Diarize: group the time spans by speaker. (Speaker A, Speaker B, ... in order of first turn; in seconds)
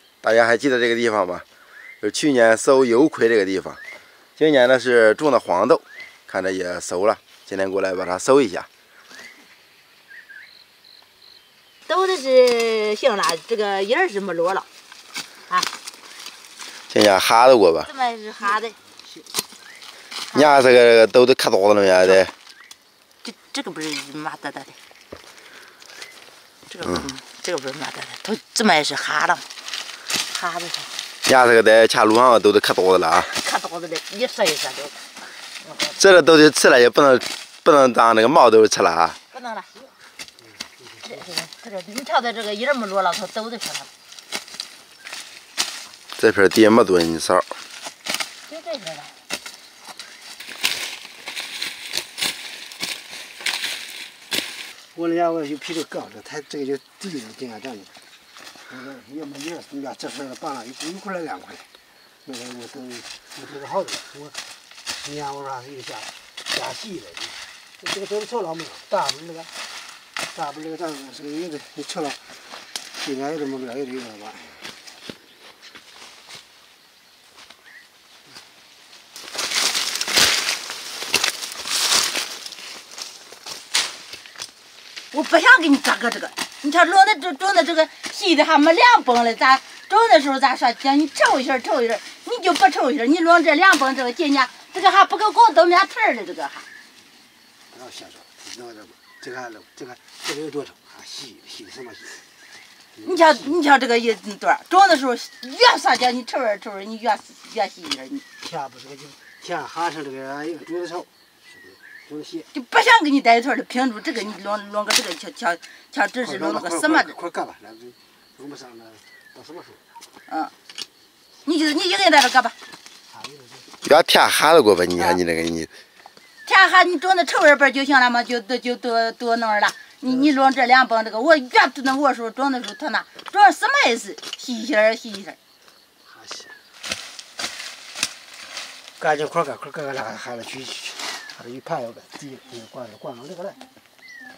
Speaker A: 0.2-1.4, 2.0-3.8, 4.4-8.7, 16.9-17.9, 20.3-22.3, 31.3-33.3, 36.0-39.2, 46.2-47.5, 123.8-125.7
Speaker B: 11.9-14.7, 17.9-18.8, 20.3-20.6, 23.2-24.8, 26.7-29.4, 30.3-30.9, 33.1-35.0, 35.6-36.0, 39.3-39.7, 41.0-43.9, 48.5-49.2, 85.1-96.7, 103.0-108.2, 112.5-117.2, 121.5-122.5, 126.5-135.4
Speaker C: 55.0-57.9, 58.7-61.6, 62.3-64.1, 65.1-66.0, 66.6-67.2, 67.9-69.5, 70.4-72.2, 73.1-74.4, 97.8-102.1, 108.5-111.1, 112.1-112.4, 117.3-119.7, 123.2-123.6, 139.0-143.6